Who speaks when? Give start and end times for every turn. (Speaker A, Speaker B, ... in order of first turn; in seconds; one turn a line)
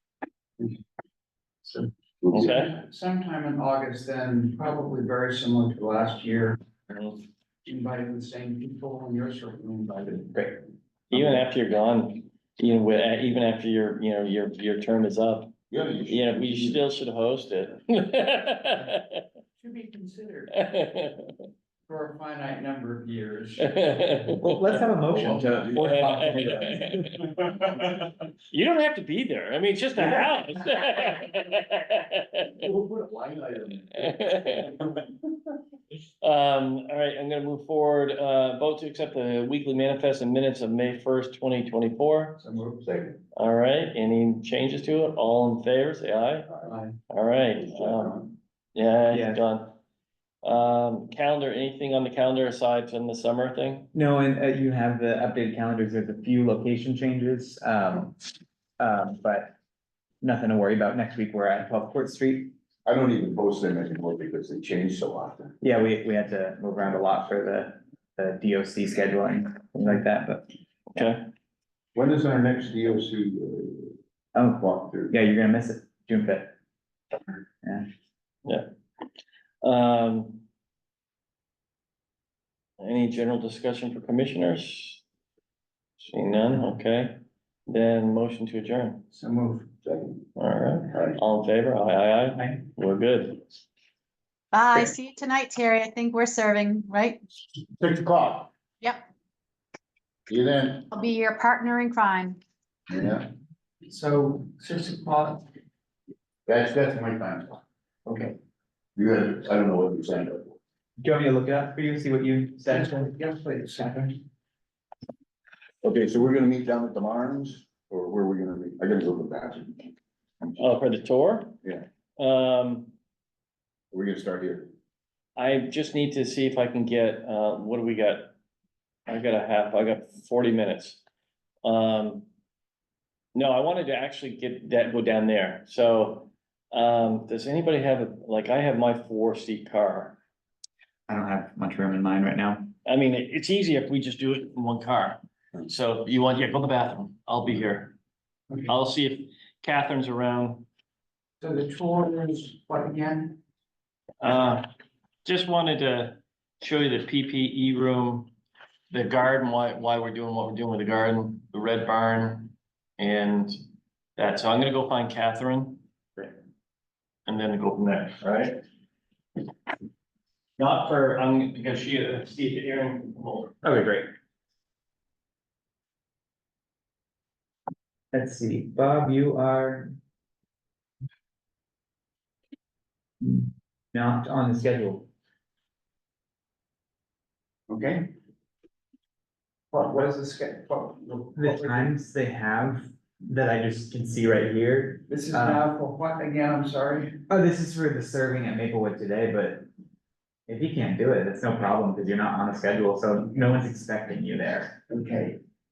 Speaker A: 1.6-6.6
Speaker B: 2.3-2.8
Speaker B: 6.9-7.2
Speaker A: 7.7-10.5
Speaker B: 11.1-15.5
Speaker C: 15.7-16.9
Speaker B: 16.1-19.2
Speaker A: 19.6-20.6
Speaker B: 20.5-21.5
Speaker A: 21.9-23.7
Speaker B: 23.6-24.6
Speaker D: 24.4-26.9
Speaker C: 25.1-27.7
Speaker B: 25.8-32.5
Speaker C: 32.6-34.6
Speaker B: 34.0-34.9
Speaker B: 36.2-42.4
Speaker A: 42.4-43.2
Speaker B: 43.4-46.5
Speaker A: 46.7-46.9
Speaker B: 47.1-49.7
Speaker C: 47.8-48.2
Speaker D: 49.1-49.4
Speaker B: 50.4-53.9
Speaker D: 53.9-58.2
Speaker D: 58.8-59.6
Speaker D: 60.2-62.5
Speaker C: 62.9-65.5
Speaker D: 65.6-71.2
Speaker B: 70.9-71.3
Speaker C: 72.0-74.0
Speaker D: 74.3-76.5
Speaker C: 74.6-75.2
Speaker D: 77.6-77.9
Speaker B: 79.6-80.4
Speaker B: 82.8-85.0
Speaker B: 86.0-89.0
Speaker A: 89.1-89.8
Speaker C: 89.8-90.1
Speaker B: 90.4-93.4
Speaker C: 90.9-91.2
Speaker E: 94.5-97.2
Speaker C: 97.8-98.5
Speaker C: 100.3-100.9
Speaker E: 100.9-102.4
Speaker C: 102.9-103.3
Speaker A: 103.8-105.4
Speaker C: 106.5-107.6
Speaker A: 108.1-108.3
Speaker C: 109.0-110.6
Speaker D: 111.0-113.1
Speaker A: 112.7-114.2
Speaker C: 115.8-119.9
Speaker B: 120.6-121.5
Speaker B: 122.2-122.9
Speaker C: 123.9-124.7
Speaker B: 125.4-128.3
Speaker B: 129.1-131.0
Speaker B: 131.6-132.3
Speaker B: 133.3-140.2
Speaker D: 141.1-142.7
Speaker B: 142.8-147.9
Speaker B: 148.7-150.7
Speaker A: 151.4-153.4
Speaker B: 154.2-154.7
Speaker B: 155.2-158.3
Speaker B: 158.9-163.6
Speaker B: 164.2-165.8
Speaker B: 167.3-168.6
Speaker B: 170.6-173.5
Speaker D: 173.6-174.1
Speaker D: 178.1-180.0
Speaker D: 183.2-185.1
Speaker A: 187.7-188.1
Speaker A: 189.7-191.9
Speaker D: 191.4-195.6
Speaker A: 195.1-197.2
Speaker D: 197.3-199.7
Speaker D: 200.5-204.8
Speaker A: 204.9-205.4